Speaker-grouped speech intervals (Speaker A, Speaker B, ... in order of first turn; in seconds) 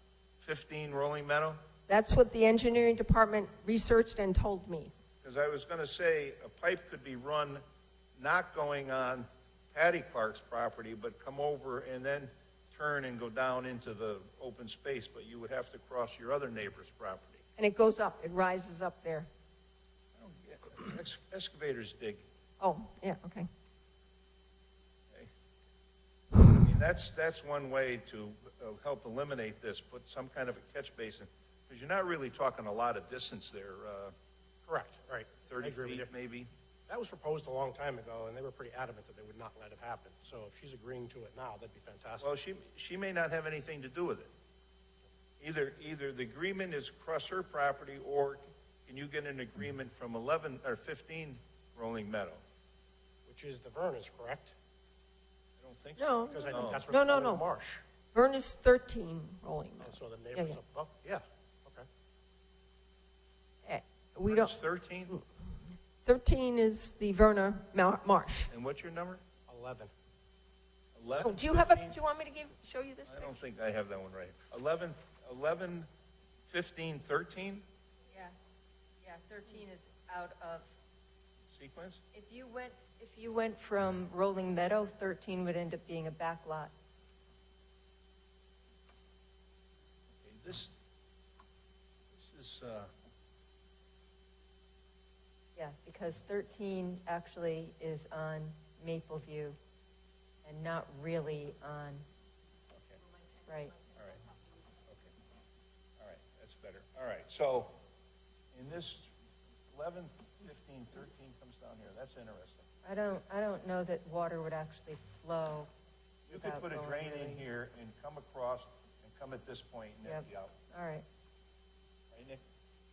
Speaker A: 0.4-1.6, 5.2-7.6, 8.2-17.4, 20.2-22.2, 26.4-34.1, 35.5-36.5, 42.2-44.3, 45.4-52.4, 55.6-56.8, 64.3-65.2, 68.5-69.2, 71.0-72.0, 73.1-75.9, 76.5-77.6, 81.5-82.0, 90.2-90.7, 92.1-92.9, 106.0-107.8, 108.5-109.1, 109.7-112.7, 116.3-120.6, 122.1-122.4
Speaker B: 1.9-4.9, 17.6-19.3, 22.6-23.5, 56.0-57.4, 58.1-60.6, 63.6-64.5, 66.0-68.5, 71.2-73.3
Speaker C: 34.7-36.1, 36.9-42.3, 53.3-54.5, 56.3-57.8, 59.8-61.9, 69.5-69.9
Speaker D: 79.0-80.7, 82.1-86.7, 95.6-99.6, 100.4-102.1, 103.5-103.8, 112.8-115.7, 116.3-117.4, 120.0-121.0